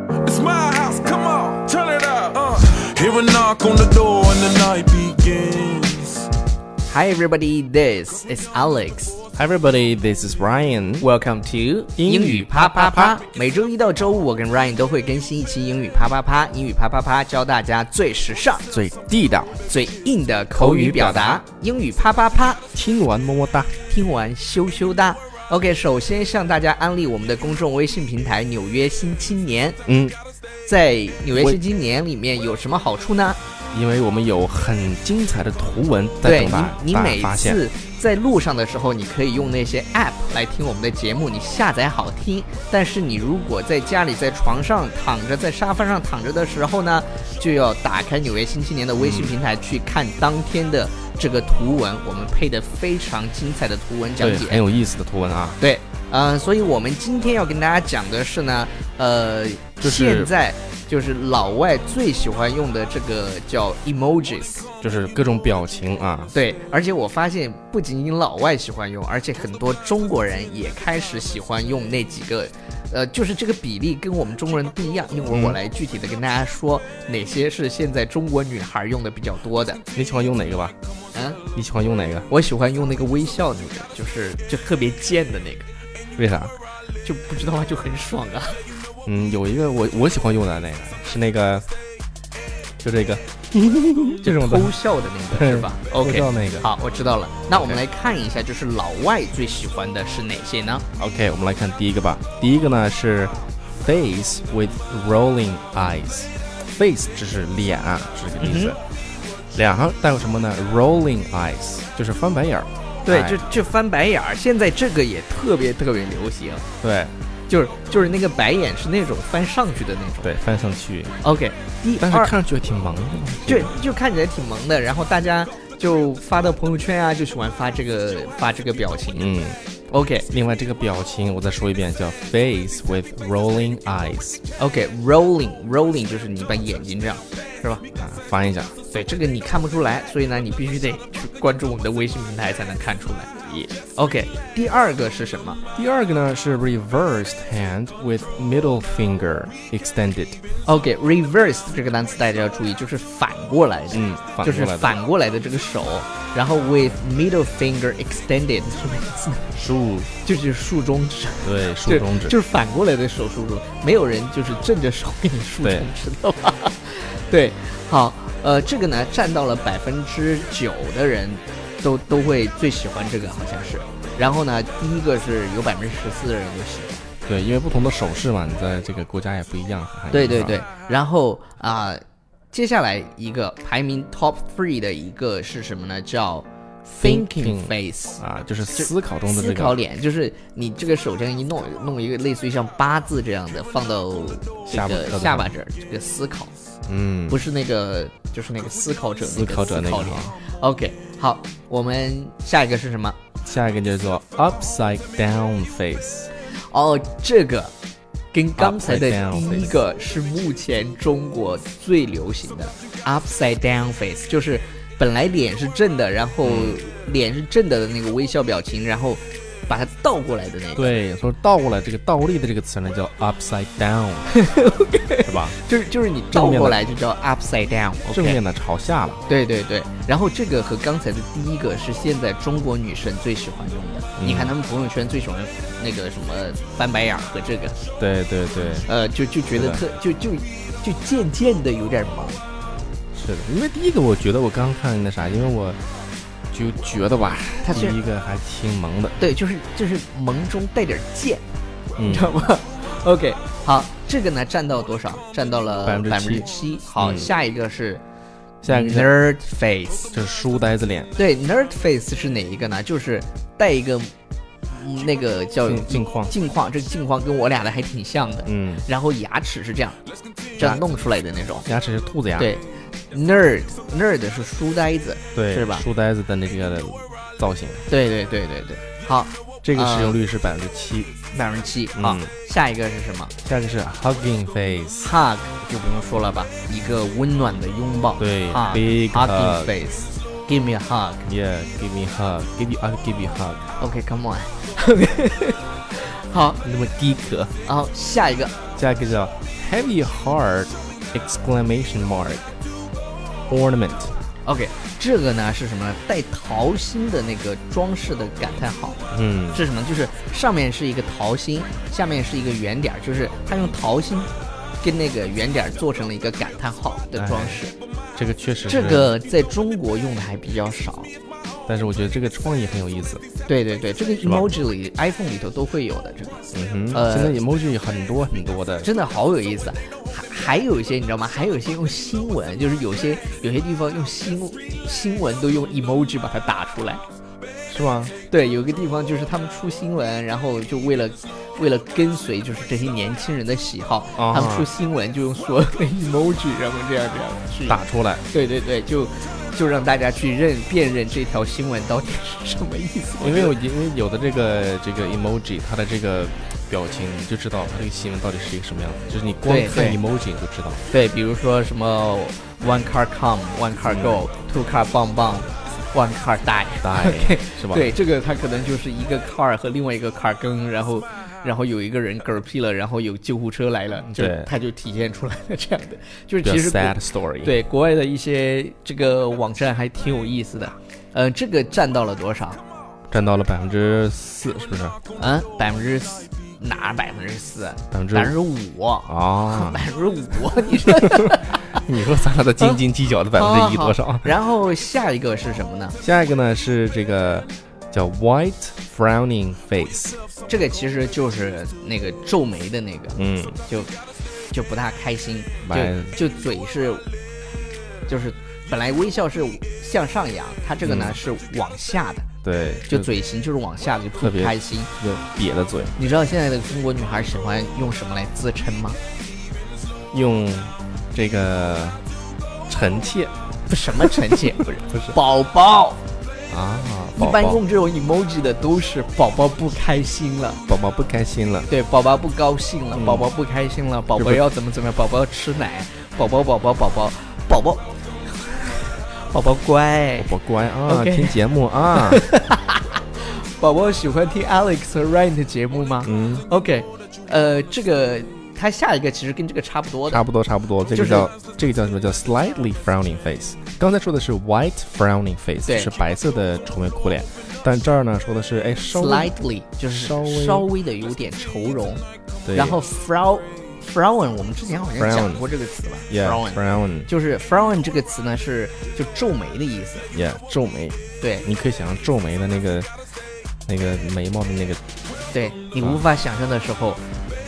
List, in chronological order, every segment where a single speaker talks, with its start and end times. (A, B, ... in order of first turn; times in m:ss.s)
0:00.2-0:06.3 A
0:06.8-0:09.2 B
0:09.3-0:11.0 C
0:11.0-0:18.7 B
0:12.0-0:13.2 C
0:18.7-0:19.6 C
0:19.6-0:22.6 B
0:20.5-0:21.4 C
0:22.7-0:23.8 C
0:23.9-0:29.8 B
0:29.8-0:30.2 C
0:30.6-0:33.4 B
0:33.7-0:37.6 C
0:36.2-0:54.6 B
0:49.0-0:49.4 C
0:54.2-0:55.6 C
0:55.6-1:04.7 B
0:59.8-1:00.3 C
1:04.8-1:06.3 C
1:06.3-1:19.8 B
1:15.3-1:15.6 C
1:19.9-1:20.8 C
1:21.1-1:21.4 B
1:21.5-1:22.3 C
1:22.3-1:25.7 B
1:26.2-1:26.5 C
1:27.0-1:28.6 B
1:29.0-1:31.6 C
1:32.8-1:34.7 C
1:34.2-1:40.8 B
1:35.3-1:36.7 C
1:41.0-1:48.8 C
1:48.4-1:48.8 B
1:49.5-1:53.4 C
1:53.0-1:56.6 B
1:56.8-1:57.1 C
1:57.5-2:00.3 B
2:00.2-2:01.2 C
2:01.2-2:02.3 B
2:02.0-2:03.7 C
2:03.4-2:09.3 B
2:09.1-2:09.6 C
2:09.9-2:10.3 B
2:10.3-2:14.4 C
2:14.6-2:17.9 B
2:17.9-2:18.7 C
2:18.8-2:25.6 B
2:25.7-2:30.4 C
2:30.6-2:39.6 B
2:33.9-2:34.9 C
2:39.5-2:40.1 C
2:40.2-2:57.1 B
2:41.4-2:42.4 C
2:45.6-2:45.9 C
2:57.2-3:00.6 C
3:00.1-3:08.2 B
3:06.9-3:09.8 C
3:08.7-3:16.5 B
3:14.6-3:15.5 C
3:16.9-3:17.4 C
3:17.3-3:23.2 B
3:19.2-3:20.4 C
3:23.4-3:26.3 C
3:26.5-3:27.7 B
3:28.3-3:40.9 B
3:28.6-3:29.8 C
3:36.4-3:36.8 C
3:40.7-3:44.3 C
3:44.3-3:48.4 B
3:45.2-3:45.6 C
3:46.3-3:46.8 C
3:48.1-3:49.2 C
3:49.3-3:57.8 B
3:54.2-3:54.5 C
3:58.0-3:58.9 C
3:58.8-4:02.4 B
3:59.5-3:59.8 C
4:03.1-4:05.8 C
4:06.5-4:09.2 C
4:07.6-4:08.0 B
4:09.2-4:11.4 B
4:12.0-4:12.4 C
4:12.0-4:18.0 B
4:15.8-4:17.3 C
4:18.6-4:19.1 C
4:18.6-4:20.1 B
4:20.1-4:21.1 C
4:21.2-4:24.1 B
4:24.7-4:30.0 B
4:25.6-4:26.3 C
4:28.4-4:28.8 C
4:30.5-4:31.7 B
4:30.6-4:30.8 C
4:31.6-4:32.5 C
4:32.4-4:35.8 B
4:35.3-4:37.9 C
4:37.9-4:40.2 B
4:39.6-4:41.1 C
4:41.3-4:43.3 B
4:41.9-4:42.3 C
4:43.4-4:45.1 C
4:45.0-4:51.3 B
4:48.2-4:49.8 C
4:51.2-4:53.7 C
4:53.8-4:56.6 B
4:56.6-4:57.5 C
4:57.6-4:58.6 B
4:58.8-5:02.6 C
5:03.5-5:04.1 C
5:04.4-5:09.0 B
5:09.1-5:09.6 C
5:09.5-5:17.7 B
5:17.1-5:17.6 C
5:18.1-5:19.1 C
5:18.7-5:21.1 B
5:21.7-5:23.2 C
5:23.4-5:27.4 B
5:24.2-5:24.5 C
5:26.5-5:28.9 C
5:28.8-5:37.0 B
5:37.7-5:38.1 C
5:38.3-5:53.6 B
5:44.2-5:44.7 C
5:47.6-5:48.2 C
5:53.2-6:00.9 C
5:59.4-6:00.0 B
6:00.9-6:22.6 B
6:03.8-6:04.2 C
6:06.8-6:07.9 C
6:14.0-6:14.5 C
6:16.4-6:17.5 C
6:23.1-6:25.0 C
6:25.2-6:31.8 B
6:27.9-6:28.4 C
6:29.0-6:29.9 C
6:30.8-6:34.3 C
6:33.3-6:36.0 B
6:36.0-6:40.2 C
6:40.5-6:43.9 B
6:43.1-6:43.6 C
6:44.5-6:47.0 B
6:45.6-6:46.2 C
6:48.0-6:52.3 B
6:50.8-6:51.2 C
6:52.4-6:53.1 C
6:52.9-6:54.9 B
6:54.2-6:56.0 C
6:56.0-6:59.0 B
7:00.1-7:02.0 C
7:02.7-7:03.3 C
7:03.7-7:06.0 B
7:06.5-7:07.6 C
7:07.2-7:10.6 B
7:10.7-7:11.7 C
7:11.7-7:20.3 B
7:12.9-7:13.3 C
7:14.2-7:14.4 C
7:20.2-7:22.2 C
7:20.8-7:30.2 B
7:26.0-7:26.4 C
7:30.0-7:39.4 C
7:30.9-7:31.3 B
7:35.6-7:35.9 B
7:38.9-7:50.1 B
7:39.9-7:40.7 C
7:42.4-7:42.8 C
7:45.0-7:45.4 C
7:46.1-7:47.1 C
7:50.1-7:52.9 C
7:51.2-7:51.4 B
7:53.7-7:54.8 C
7:55.3-7:57.0 B